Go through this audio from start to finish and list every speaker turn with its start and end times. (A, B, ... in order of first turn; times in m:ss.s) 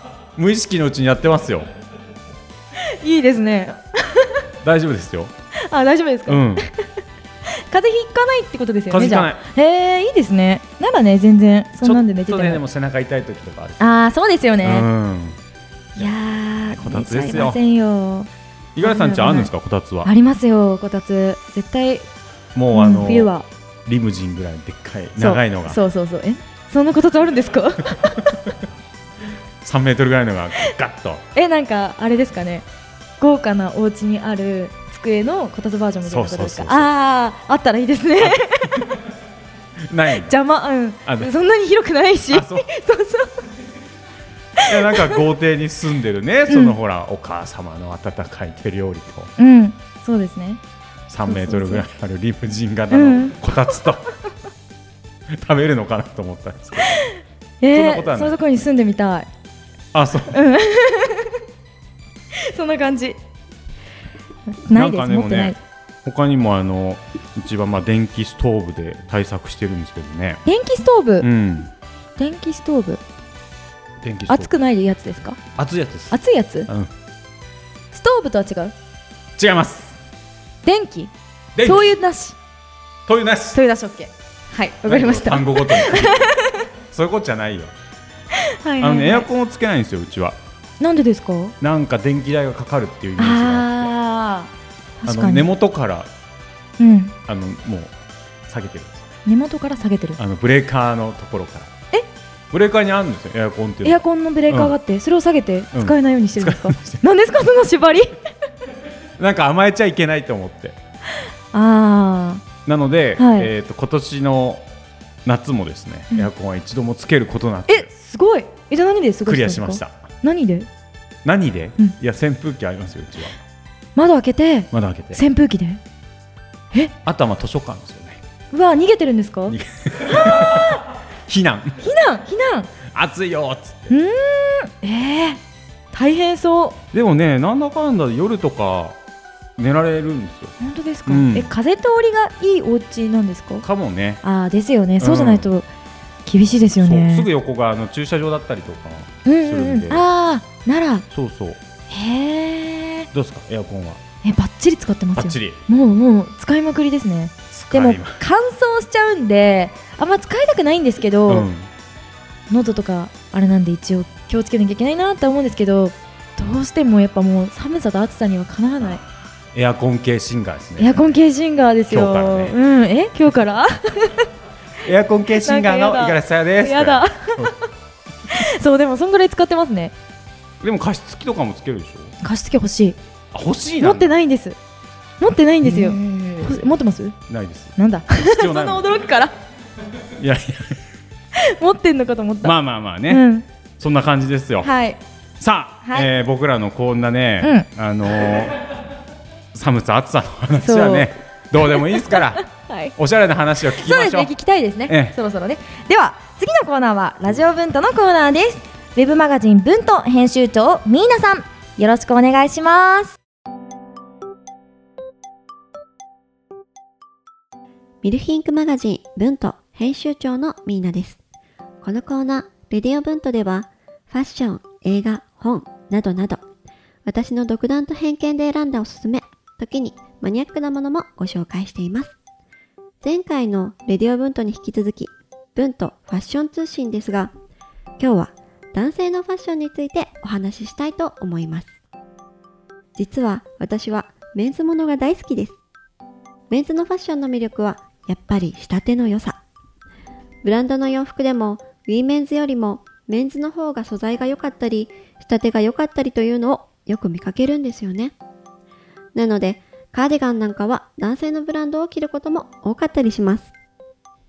0:00.4-0:01.7 A
0:02.8-0:04.4 B
0:04.6-0:05.3 A
0:05.7-0:06.8 B
0:06.3-0:06.6 A
0:07.6-0:12.6 B
0:08.9-0:09.4 A
0:11.8-0:13.8 A
0:13.8-0:14.9 B
0:14.6-0:15.4 A
0:16.0-0:18.3 B
0:16.7-0:17.6 A
0:18.7-0:20.1 A
0:18.8-0:19.5 B
0:20.0-0:22.1 B
0:22.5-0:23.3 A
0:22.7-0:23.5 B
0:23.8-0:25.8 A
0:25.2-0:28.4 B
0:29.6-0:31.2 A
0:31.3-0:32.6 B
0:33.2-0:38.8 B
0:36.0-0:36.9 A
0:38.2-0:38.8 A
0:39.9-0:40.3 A
0:40.1-0:43.3 B
0:42.3-0:42.6 A
0:44.6-0:45.1 B
0:44.6-0:49.3 A
0:46.5-0:46.8 B
0:49.4-0:50.6 B
0:51.1-0:54.0 A
0:51.2-0:51.8 B
0:52.9-0:53.4 B
0:55.3-0:57.0 A
0:57.0-0:59.3 B
0:57.7-0:58.5 A
0:59.9-1:00.4 A
1:00.3-1:01.3 B
1:02.4-1:03.2 B
1:04.5-1:05.6 B
1:04.7-1:10.4 A
1:10.4-1:11.3 B
1:11.2-1:11.7 A
1:12.2-1:13.0 B
1:14.0-1:14.5 A
1:14.3-1:15.4 B
1:15.6-1:16.9 A
1:16.1-1:16.7 B
1:17.9-1:18.7 B
1:19.4-1:19.9 A
1:20.6-1:21.1 B
1:21.5-1:21.8 A
1:21.6-1:22.4 B
1:23.1-1:23.6 A
1:23.5-1:26.6 B
1:24.8-1:26.3 A
1:26.9-1:27.7 A
1:28.3-1:29.3 B
1:28.8-1:30.4 A
1:30.8-1:31.6 B
1:31.6-1:33.9 A
1:33.2-1:35.5 B
1:35.0-1:36.1 A
1:36.8-1:37.1 B
1:37.3-1:37.9 A
1:38.5-1:39.1 A
1:39.2-1:40.2 B
1:40.2-1:41.7 A
1:42.5-1:44.7 A
1:43.8-1:48.2 B
1:45.7-1:47.0 A
1:49.2-1:50.8 A
1:51.5-1:52.4 B
1:52.6-1:54.6 A
1:53.2-1:53.5 B
1:55.2-1:57.9 A
1:57.7-2:00.7 B
1:59.2-1:59.9 A
2:01.2-2:03.4 A
2:04.0-2:05.8 B
2:04.7-2:05.2 A
2:07.0-2:08.2 A
2:08.5-2:10.8 B
2:09.5-2:11.8 A
2:11.8-2:12.7 B
2:12.9-2:13.9 A
2:13.9-2:15.4 B
2:15.9-2:16.8 B
2:16.9-2:19.0 A
2:19.6-2:20.5 A
2:20.6-2:23.6 B
2:21.1-2:21.5 A
2:23.6-2:24.2 A
2:24.2-2:25.7 B
2:25.0-2:25.5 A
2:26.2-2:27.3 B
2:26.8-2:30.0 A
2:29.2-2:31.0 B
2:31.1-2:31.6 A
2:31.9-2:33.1 B
2:33.1-2:34.0 A
2:34.2-2:41.5 B
2:35.2-2:35.6 A
2:37.5-2:38.2 A
2:41.3-2:41.7 A
2:42.5-2:49.0 B
2:48.8-2:51.1 A
2:50.8-2:54.3 B
2:51.9-2:52.6 A
2:54.8-2:57.5 A
2:55.4-2:57.6 B
2:58.3-2:59.9 B
3:00.6-3:02.1 A
3:02.2-3:03.0 B
3:03.3-3:04.2 A
3:03.8-3:04.6 B
3:05.2-3:07.1 B
3:05.6-3:06.5 A
3:07.3-3:08.9 A
3:07.8-3:09.3 B
3:10.2-3:10.8 A
3:11.4-3:12.5 B
3:12.4-3:13.2 A
3:13.1-3:13.4 B
3:13.8-3:14.7 A
3:14.6-3:15.0 B
3:15.4-3:18.6 A
3:15.8-3:16.1 B
3:17.4-3:17.7 B
3:19.5-3:22.4 A
3:20.6-3:21.1 B
3:21.8-3:22.9 B
3:23.0-3:24.3 A
3:23.8-3:33.2 B
3:24.9-3:25.2 A
3:38.0-3:41.2 C
3:41.8-3:46.4 C
3:47.0-3:52.1 C
3:53.0-3:57.3 C
3:58.0-4:01.7 C
4:03.0-4:05.6 C
4:06.5-4:09.4 C
4:10.4-4:18.1 C
4:19.1-4:23.5 C